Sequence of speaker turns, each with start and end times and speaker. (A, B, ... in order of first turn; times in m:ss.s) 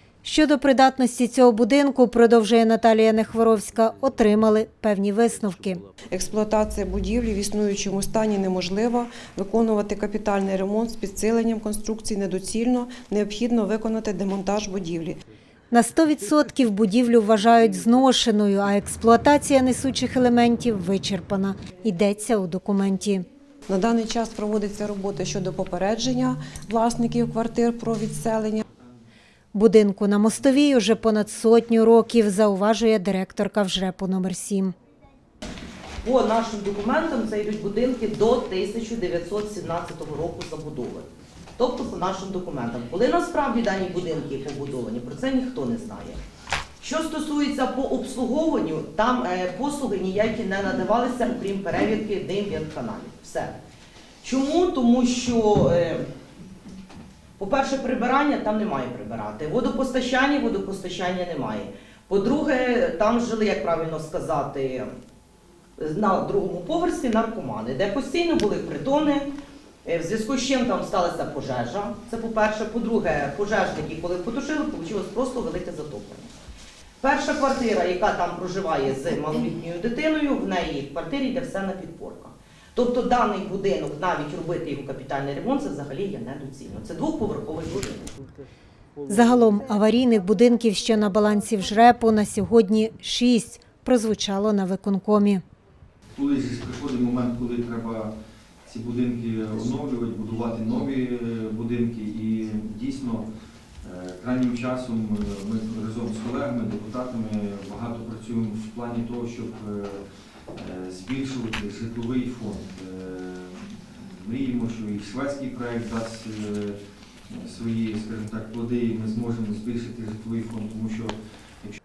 0:00.2-0:05.8 A
0:06.1-0:15.2 B
0:15.7-0:23.2 A
0:23.7-0:28.6 B
0:29.5-0:34.7 A
0:36.0-0:46.2 C
0:46.8-0:53.6 C
0:54.2-0:56.0 C
0:57.4-1:04.9 C
1:05.8-1:09.3 C
1:09.8-1:16.3 C
1:17.0-1:28.1 C
1:29.1-1:35.4 A
1:36.1-1:38.1 D
1:38.6-1:43.3 D
1:43.8-1:50.0 D
1:50.6-1:56.8 D
1:57.3-2:01.8 D